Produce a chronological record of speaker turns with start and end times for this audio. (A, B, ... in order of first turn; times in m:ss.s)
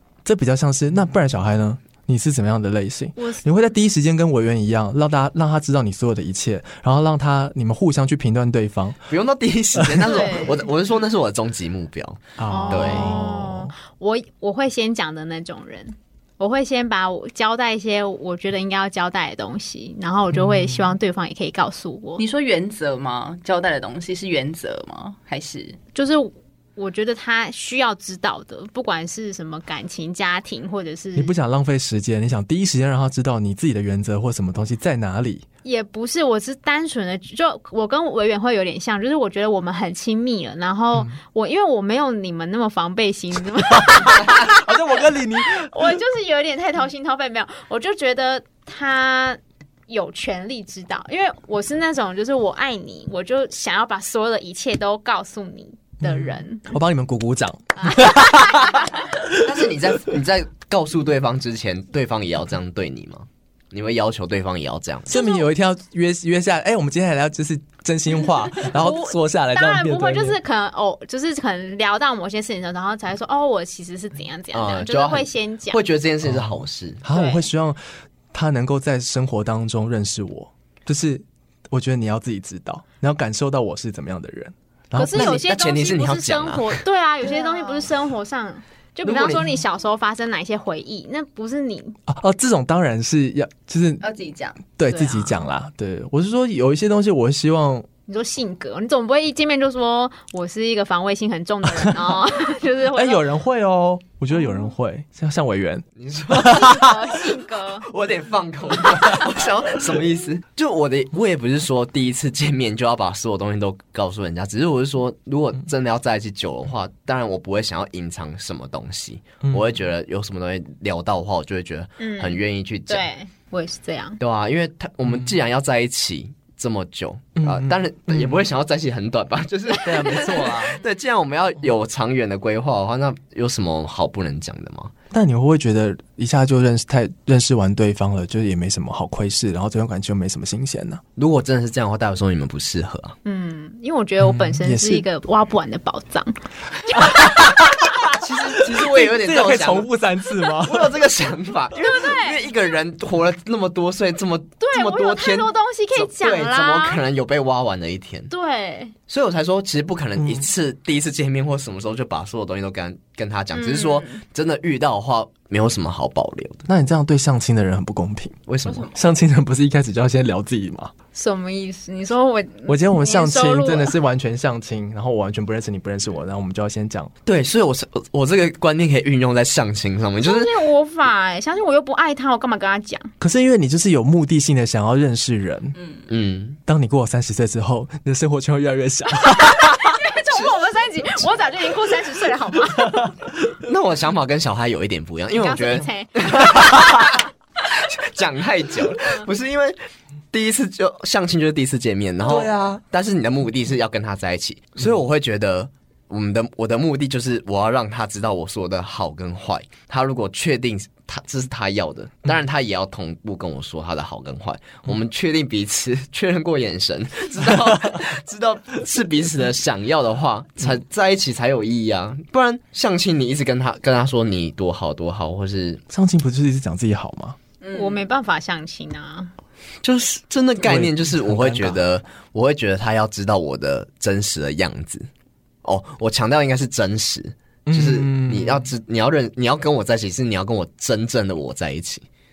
0:00.2-0:09.1 A
0:03.2-0:03.4 B
0:09.1-0:13.2 C
0:09.8-0:10.2 A
0:10.0-0:10.7 B
0:12.4-0:13.7 A
0:12.5-0:22.2 B
0:20.3-0:20.9 A
0:22.2-0:25.8 D
0:26.0-0:31.3 B
0:31.2-0:35.4 A
0:35.6-0:44.7 B
0:40.9-0:41.2 A
0:43.9-0:46.0 A
0:45.6-0:56.6 B
0:56.0-0:59.8 A
0:57.8-0:58.8 B
0:59.4-1:05.2 C
1:05.1-1:10.4 A
1:05.1-1:05.4 B
1:08.7-1:15.8 B
1:14.5-1:17.0 C
1:16.2-1:17.8 A
1:17.1-1:17.5 B
1:18.3-1:25.4 A
1:25.0-1:32.0 B
1:25.1-1:26.8 C
1:27.2-1:27.9 D
1:29.0-1:29.6 C
1:32.1-1:34.0 A
1:34.0-1:34.6 D
1:34.7-1:37.9 A
1:34.9-1:35.4 B
1:38.1-1:43.3 B
1:42.9-1:46.9 A
1:46.0-1:46.7 C
1:46.4-1:47.9 B
1:47.8-2:03.1 C
1:59.4-1:59.7 A
2:02.0-2:04.2 B
2:04.2-2:14.9 C
2:05.1-2:05.3 A
2:07.4-2:08.4 A
2:09.8-2:10.8 A
2:15.1-2:21.0 A
2:21.2-2:23.2 C
2:23.2-2:27.3 B
2:24.2-2:25.0 A
2:26.9-2:28.0 A
2:28.2-2:29.9 C
2:28.6-2:31.0 A
2:30.5-2:38.3 C
2:31.8-2:32.4 B
2:34.6-2:37.0 B
2:38.3-2:38.9 B
2:39.1-2:46.6 C
2:40.2-2:40.5 A
2:43.5-2:44.2 B
2:46.7-2:48.4 A
2:48.5-2:48.9 C
2:48.9-2:50.9 A
2:51.2-2:53.9 B
2:52.7-2:57.1 A
2:57.2-3:00.5 C
3:00.2-3:03.1 B
3:03.2-3:05.8 A
3:06.1-3:06.6 C
3:06.7-3:09.9 A
3:09.4-3:13.1 B
3:13.6-3:19.8 C
3:15.4-3:16.5 B
3:19.0-3:19.3 B
3:20.3-3:45.8 C
3:22.3-3:22.8 A
3:45.9-3:47.4 A
3:47.6-3:48.0 D
3:47.7-3:49.3 B
3:49.8-3:55.1 C
3:50.6-3:51.8 A
3:55.6-4:02.1 C
3:57.7-3:58.7 A